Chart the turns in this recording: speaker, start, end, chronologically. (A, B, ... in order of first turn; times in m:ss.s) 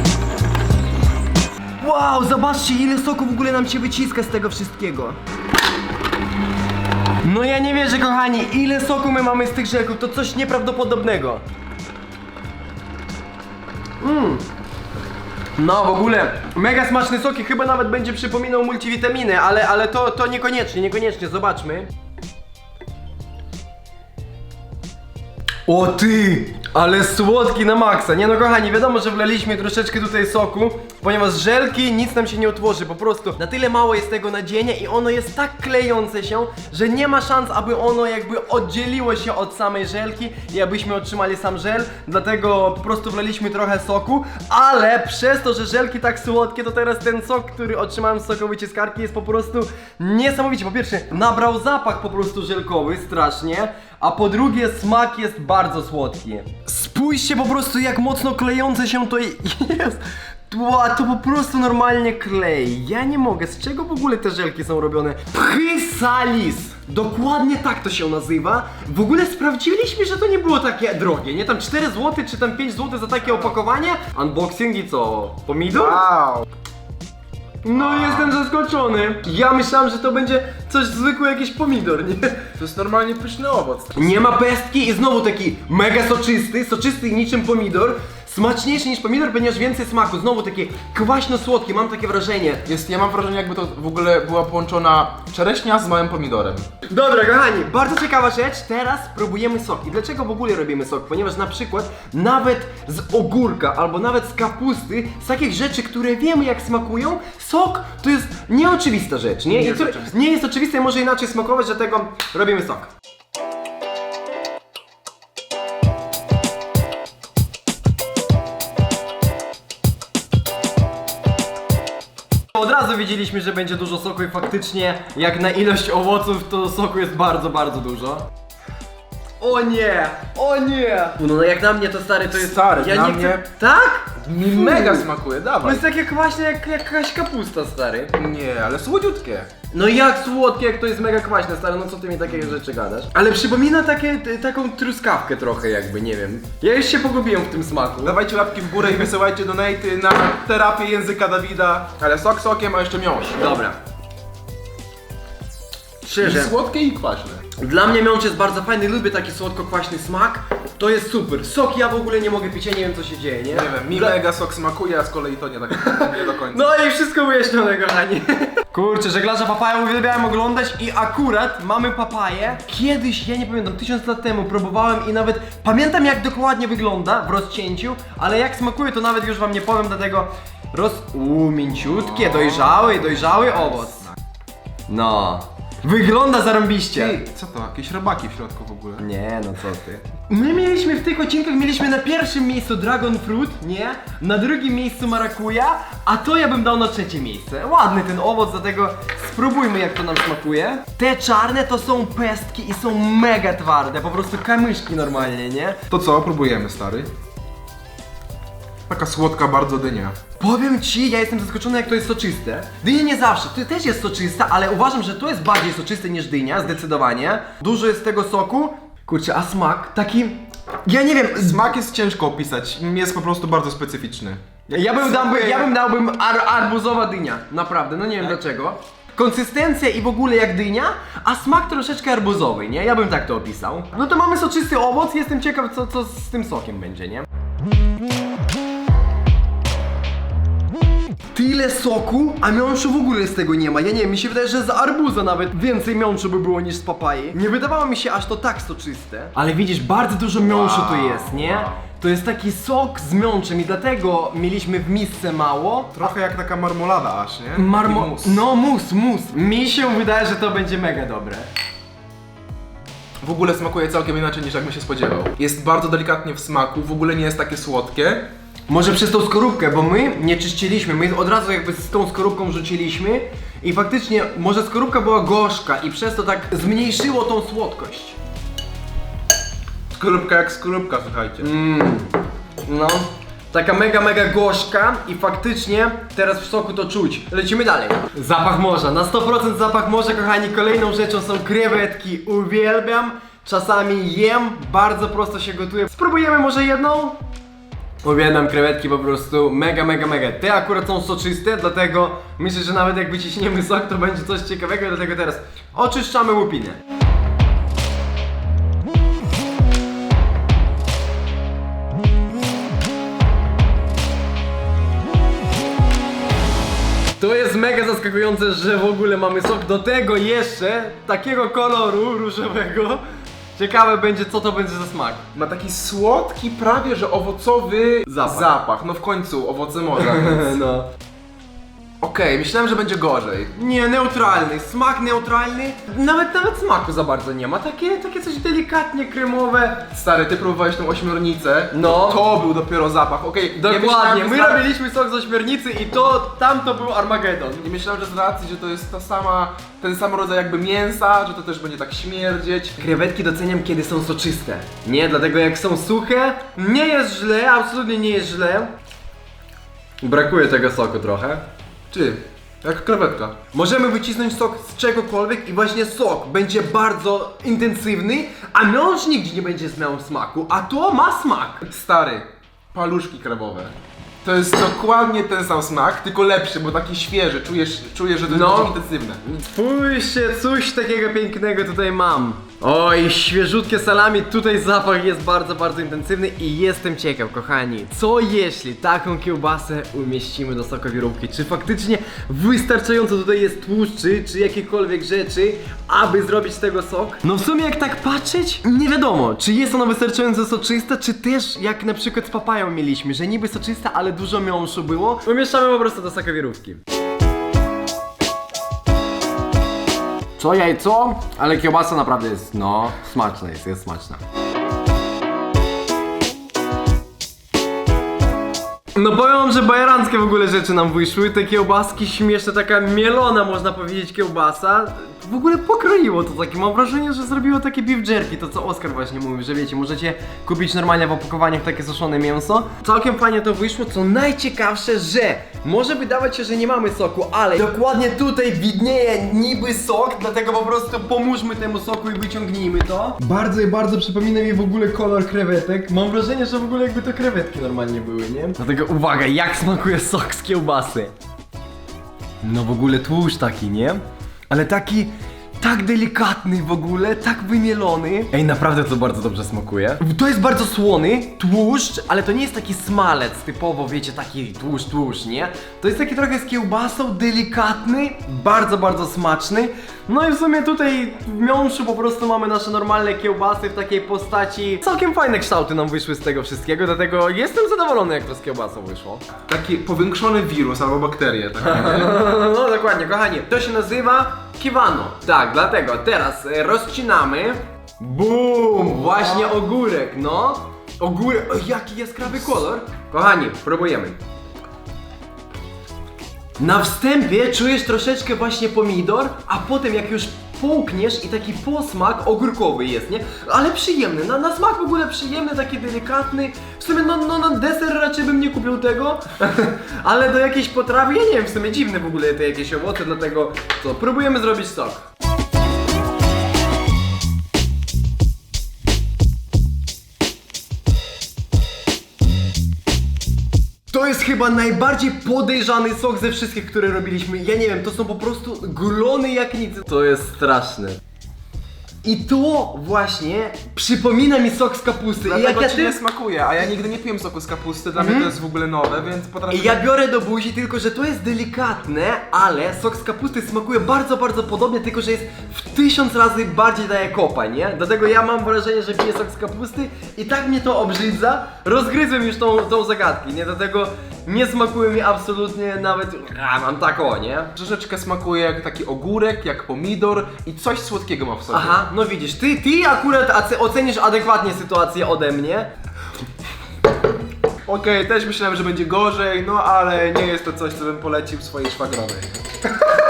0:01.8-0:05.2 A
0:07.2-0:11.4 A
0:14.0-0:14.4 A
0:15.6-0:21.9 A
0:25.6-1:16.0 A
1:15.7-1:16.5 B
1:17.6-1:22.5 A
1:17.7-1:18.3 B
1:22.6-1:24.1 B
1:23.9-1:32.6 A
1:32.6-1:36.7 B
1:36.9-1:52.9 A
1:49.5-1:50.1 B
2:02.5-2:08.3 A
2:09.4-2:15.1 A
2:12.3-2:13.4 B
2:14.2-2:15.8 B
2:15.6-2:18.1 A
2:18.1-2:19.5 B
2:19.7-2:28.1 A
2:28.0-2:33.4 B
2:33.4-2:33.8 A
2:36.0-2:36.5 A
2:36.2-2:37.4 B
2:37.6-2:44.2 A
2:43.5-2:46.7 B
2:45.8-3:04.1 A
3:01.8-3:03.6 B
3:04.9-3:07.2 A
3:06.9-3:09.0 B
3:09.0-3:25.8 A
3:25.9-3:27.1 B
3:28.9-3:30.2 B
3:30.4-3:41.6 A
3:41.4-3:45.7 B
3:44.7-3:57.3 A
4:01.3-4:16.0 A
4:10.4-4:11.8 B
4:15.9-4:18.4 B
4:17.5-4:21.5 A
4:23.2-4:28.3 B
4:28.7-4:38.2 A
4:39.9-4:41.5 B
4:41.4-4:42.1 A
4:42.6-4:57.2 A
4:58.0-5:06.8 A
5:17.2-5:23.0 A
5:23.6-5:25.2 A
5:25.3-5:30.6 B
5:28.1-5:28.5 A
5:30.0-5:30.9 A
5:32.0-5:33.5 B
5:33.5-5:39.9 A
5:39.9-5:44.6 B
5:41.7-5:42.2 A
5:43.6-5:47.7 A
5:47.6-5:52.8 B
5:52.8-5:58.7 A
6:00.0-6:01.5 A
6:01.9-6:03.4 B
6:03.5-6:11.6 A
6:11.6-6:19.2 B
6:18.3-6:46.8 A
6:50.4-6:54.2 A
6:58.9-7:31.1 A
7:32.4-7:59.2 A
7:59.5-8:02.2 B
8:01.6-8:14.2 A
8:16.6-8:35.0 A
8:43.9-8:51.0 A
8:52.0-8:56.0 A
8:55.2-8:59.8 B
8:58.0-8:58.3 A
8:59.5-9:17.5 A
9:17.6-9:21.8 B
9:21.5-9:25.7 A
9:27.6-9:32.4 B